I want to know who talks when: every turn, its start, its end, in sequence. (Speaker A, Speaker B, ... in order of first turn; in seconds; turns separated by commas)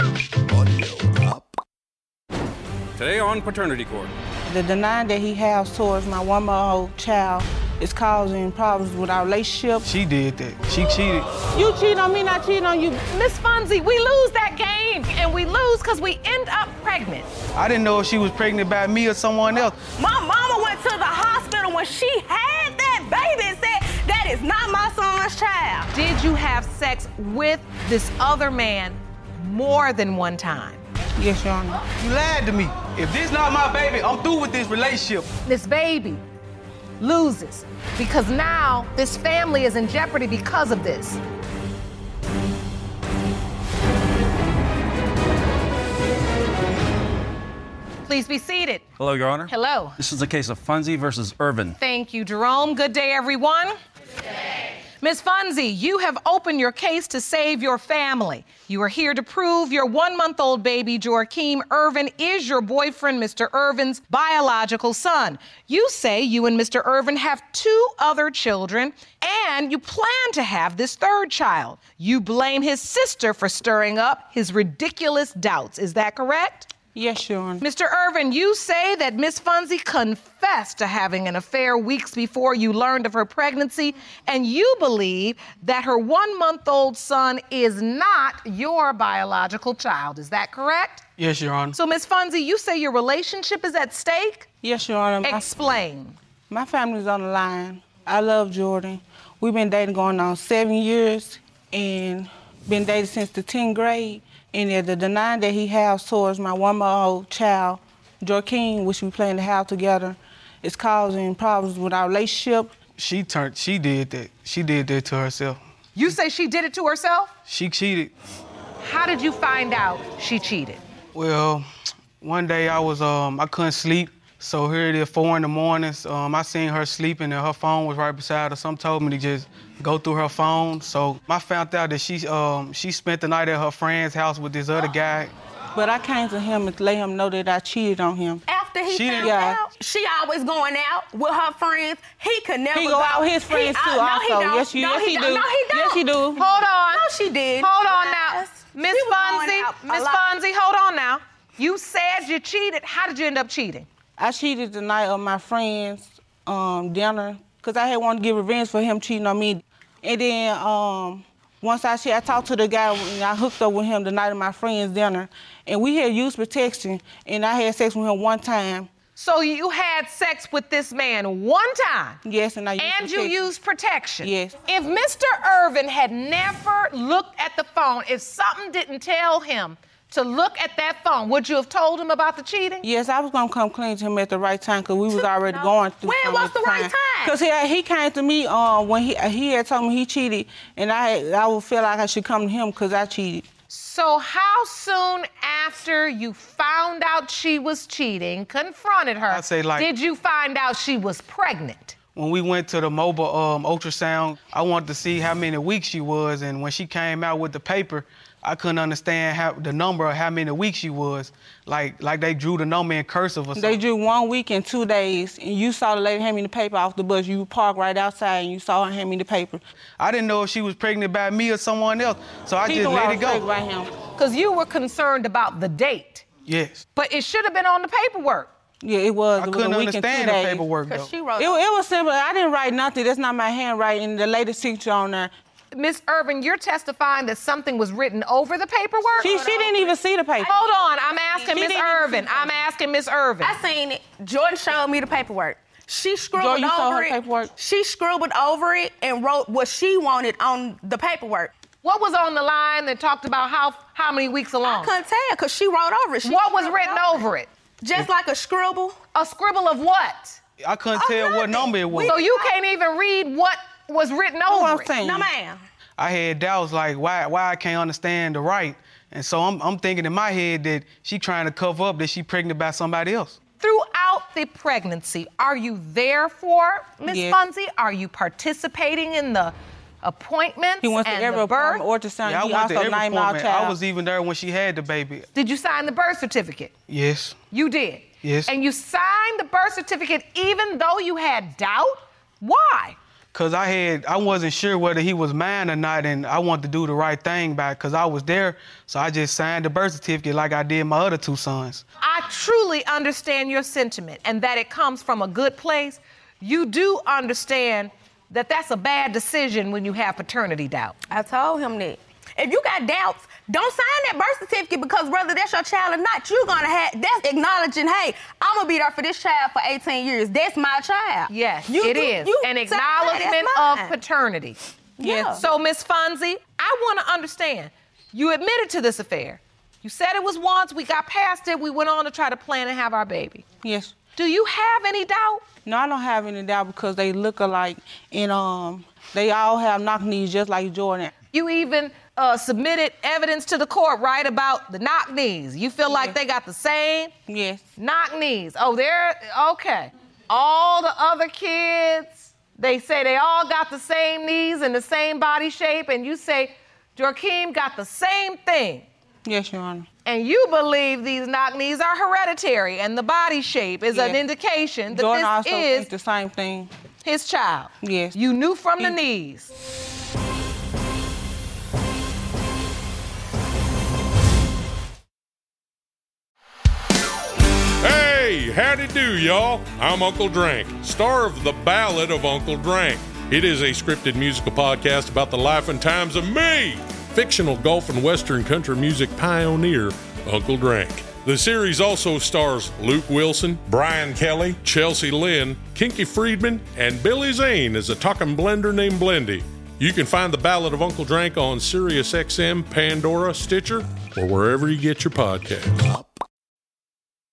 Speaker A: 3.0-4.1, Speaker B: 4.5-9.9, Speaker C: 9.8-11.3, Speaker B: 11.4-13.1, Speaker D: 13.1-17.3, Speaker C: 17.5-19.8, Speaker E: 19.9-25.9, Speaker D: 25.9-30.8, Speaker B: 31.2-31.9, Speaker C: 31.9-35.3, Speaker D: 35.4-36.2, Speaker D: 37.0-41.2, Speaker D: 48.0-48.8, Speaker A: 49.0-51.8, Speaker D: 49.5-50.0, Speaker D: 51.8-53.7, Speaker D: 55.0-76.7, Speaker B: 76.9-77.6, Speaker D: 77.6-91.0, Speaker C: 91.2-91.8, Speaker D: 91.7-94.5, Speaker B: 94.6-95.5, Speaker D: 95.2-96.2, Speaker B: 96.5-112.7, Speaker C: 113.0-115.6, Speaker D: 115.9-117.3, Speaker C: 117.5-118.1, Speaker D: 118.8-120.8, Speaker C: 121.1-121.7, Speaker C: 122.2-135.3, Speaker B: 135.8-138.4, Speaker E: 138.5-146.4, Speaker C: 138.9-139.4, Speaker B: 139.2-139.7, Speaker B: 142.7-146.4, Speaker D: 146.4-153.9, Speaker E: 146.9-150.3, Speaker B: 154.2-168.9, Speaker D: 169.1-172.2, Speaker B: 172.2-173.5, Speaker D: 172.8-182.8, Speaker B: 174.2-174.6, Speaker B: 182.8-193.5, Speaker E: 185.6-187.4, Speaker D: 193.7-202.0, Speaker C: 199.3-199.9, Speaker C: 202.1-213.8, Speaker B: 213.5-219.6, Speaker C: 220.0-223.4, Speaker B: 222.6-223.9, Speaker D: 224.1-226.3, Speaker C: 226.4-226.8, Speaker D: 226.9-228.5, Speaker B: 228.8-230.7, Speaker C: 229.4-231.1, Speaker E: 230.8-231.6, Speaker B: 231.4-235.3, Speaker D: 235.7-239.7, Speaker B: 239.2-240.5, Speaker E: 239.2-240.6, Speaker D: 240.5-243.5, Speaker B: 241.4-242.6, Speaker E: 243.4-251.5, Speaker B: 246.3-247.5, Speaker D: 251.8-255.0, Speaker E: 254.6-257.3, Speaker D: 256.2-257.5, Speaker E: 257.8-259.0, Speaker D: 259.1-260.4, Speaker C: 260.6-262.1, Speaker E: 260.9-262.6, Speaker D: 262.1-265.0, Speaker B: 264.5-265.3, Speaker E: 265.0-265.6, Speaker C: 266.0-273.4, Speaker D: 273.6-281.8, Speaker B: 277.0-277.4, Speaker B: 280.8-283.8, Speaker C: 282.2-285.3, Speaker D: 285.3-286.7, Speaker C: 286.9-287.4, Speaker D: 287.5-293.0, Speaker C: 288.2-288.5, Speaker C: 293.3-301.8, Speaker D: 302.0-310.9, Speaker E: 311.1-324.0, Speaker D: 321.3-324.6, Speaker B: 325.0-325.4, Speaker E: 325.0-325.4, Speaker D: 325.4-333.4, Speaker B: 333.6-333.9, Speaker D: 334.1-335.5, Speaker B: 335.6-341.1, Speaker D: 341.3-347.1, Speaker B: 345.8-346.1, Speaker B: 347.3-347.7, Speaker D: 347.8-358.9, Speaker B: 359.2-359.9, Speaker D: 360.0-365.9, Speaker B: 363.9-364.2, Speaker B: 364.9-366.7, Speaker D: 367.0-369.5, Speaker B: 367.8-368.2, Speaker F: 377.8-406.0